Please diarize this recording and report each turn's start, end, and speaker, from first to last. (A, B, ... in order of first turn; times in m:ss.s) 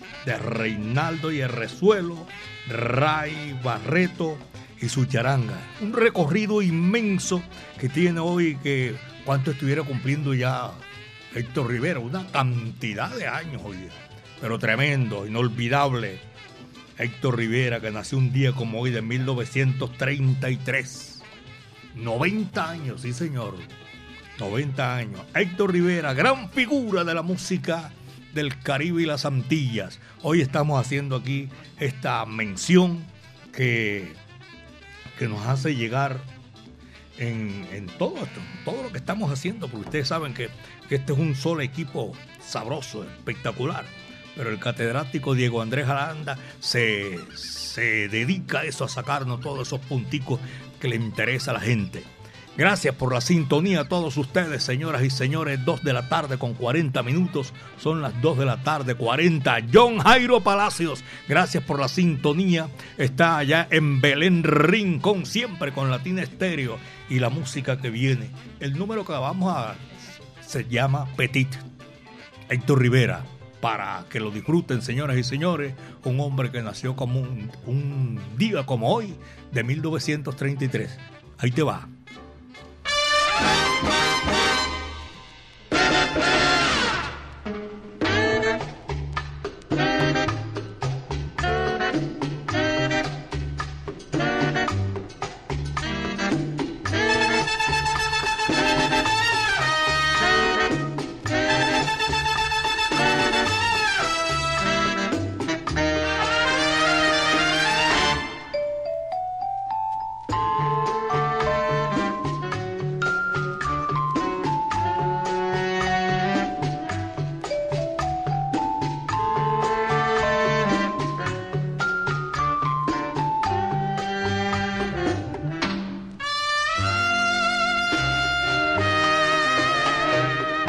0:00.2-0:16.2 A
0:17.0-0:21.2 A
0:21.9-0:23.7 A
0:24.4-0:34.2 A
0:35.2-0:36.2 A
0:37.2-1:11.6 A
1:12.5-1:21.9 A